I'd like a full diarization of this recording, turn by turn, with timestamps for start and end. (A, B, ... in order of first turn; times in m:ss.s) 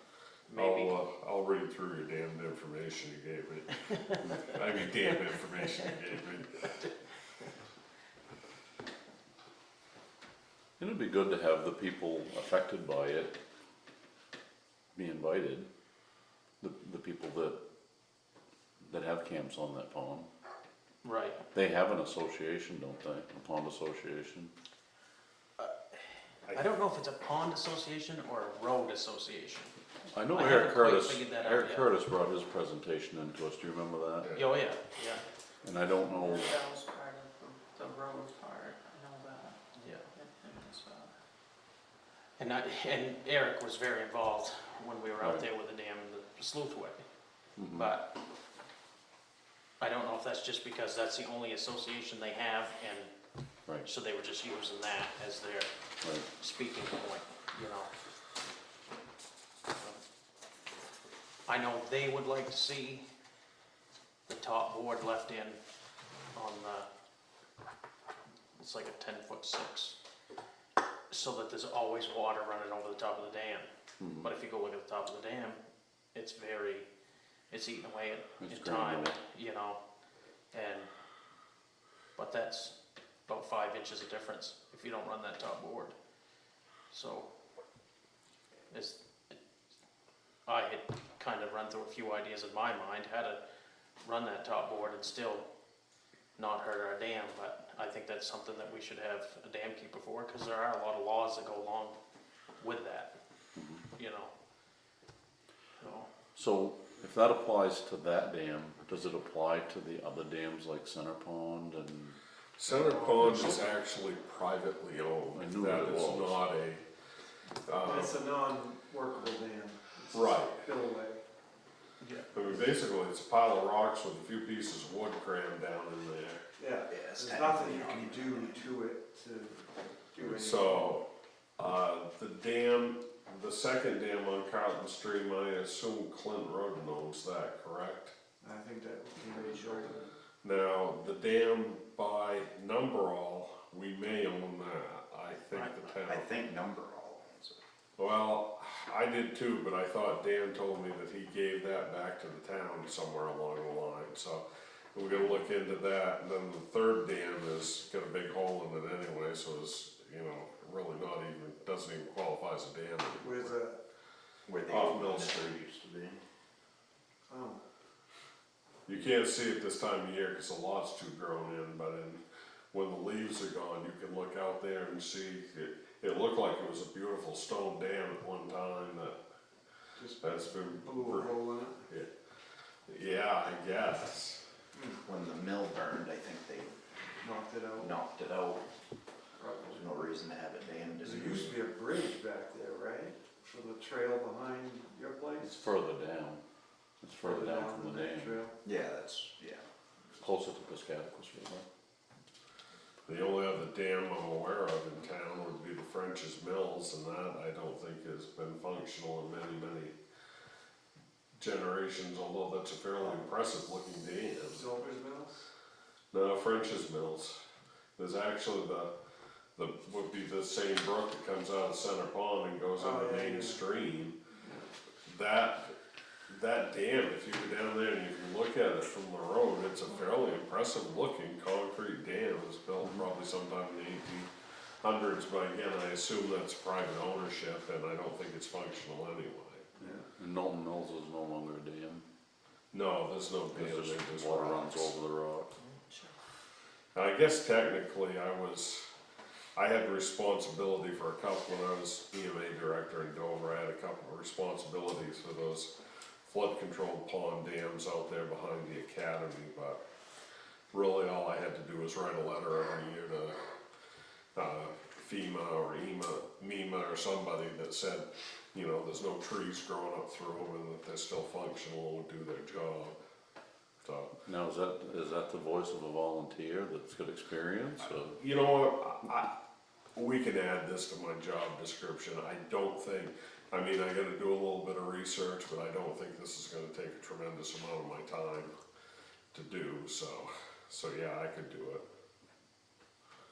0:00.5-0:00.9 A
0:00.6-0:06.8 B
0:10.8-0:13.4 C
0:14.9-0:15.7 C
0:16.6-0:17.6 C
0:18.8-0:20.3 C
0:21.0-0:21.4 A
0:21.5-0:24.5 C
0:26.5-0:29.7 A
0:30.1-0:34.3 C
0:30.3-0:31.8 A
0:34.2-0:34.5 B
0:34.3-0:35.2 A
0:35.6-0:36.6 C
0:36.1-0:39.6 D
0:39.7-0:40.1 A
0:40.1-0:41.1 D
0:42.4-0:47.0 A
0:47.6-0:47.9 C
0:47.7-0:48.1 A
0:49.8-0:53.1 A
0:53.8-0:55.7 A
0:56.3-0:57.9 A
1:01.5-1:03.0 A
1:04.3-1:05.6 A
1:06.3-1:06.9 A
1:08.6-1:10.0 A
1:11.1-1:13.7 A
1:14.0-1:14.3 C
1:14.2-1:15.6 A
1:16.1-1:16.9 A
1:17.5-1:19.8 A
1:18.4-1:19.2 C
1:20.5-1:20.9 A
1:22.2-1:22.7 A
1:23.3-1:26.0 A
1:26.9-1:27.3 A
1:28.7-1:29.4 A
1:30.4-1:33.4 A
1:34.0-1:35.4 A
1:36.4-1:42.0 A
1:42.6-1:43.2 A
1:43.6-1:43.8 C
1:43.9-1:44.3 A
1:45.8-1:46.1 A
1:46.3-1:52.2 C
1:52.6-1:56.8 B
1:52.8-1:53.5 A
1:53.2-1:53.6 C
1:55.3-1:56.4 C
1:57.6-1:58.2 B
1:57.8-2:01.2 E
2:00.1-2:00.6 B
2:02.0-2:02.3 A
2:02.3-2:06.4 B
2:06.6-2:11.0 E
2:06.9-2:08.7 F
2:10.2-2:11.0 B
2:11.6-2:18.1 B
2:18.4-2:20.0 E
2:19.3-2:20.1 D
2:20.4-2:26.3 B
2:25.5-2:25.9 A
2:26.0-2:27.6 F
2:28.0-2:43.5 B
2:43.2-2:43.8 E
2:44.5-2:46.2 F
2:44.7-2:45.5 B
2:47.3-2:47.6 E
2:48.8-2:52.2 B
2:52.7-2:59.2 B
3:00.0-3:01.9 E
3:00.2-3:01.3 B
3:02.9-3:04.4 B
3:04.7-3:05.0 E
3:05.0-3:06.8 F
3:07.2-3:07.9 E
3:07.8-3:08.6 F
3:09.4-3:10.1 E
3:09.7-3:11.6 F
3:11.0-3:15.7 E
3:15.4-3:16.4 C
3:17.0-3:18.4 C
3:17.2-3:18.6 E
3:18.6-3:19.6 F
3:20.2-3:21.6 C
3:23.1-3:29.9 B
3:31.4-3:34.6 B
3:33.0-3:33.3 E
3:34.5-3:35.5 E
3:36.1-3:37.4 B
3:38.0-3:38.9 B
3:39.6-3:44.1 B
3:42.8-3:43.6 E
3:45.0-3:45.7 B
3:46.3-3:54.3 B
3:54.8-3:59.7 B
3:59.8-4:00.0 E
4:00.2-4:02.0 C
4:02.7-4:04.9 B
4:03.5-4:05.5 C
4:05.9-4:06.1 D
4:06.9-4:08.9 B
4:09.6-4:15.7 B
4:16.2-4:19.8 B
4:20.7-4:23.4 B
4:24.3-4:33.0 B
4:33.8-4:34.1 B
4:34.2-4:38.2 C
4:37.8-4:39.3 B
4:40.0-4:48.5 B
4:49.3-4:51.8 B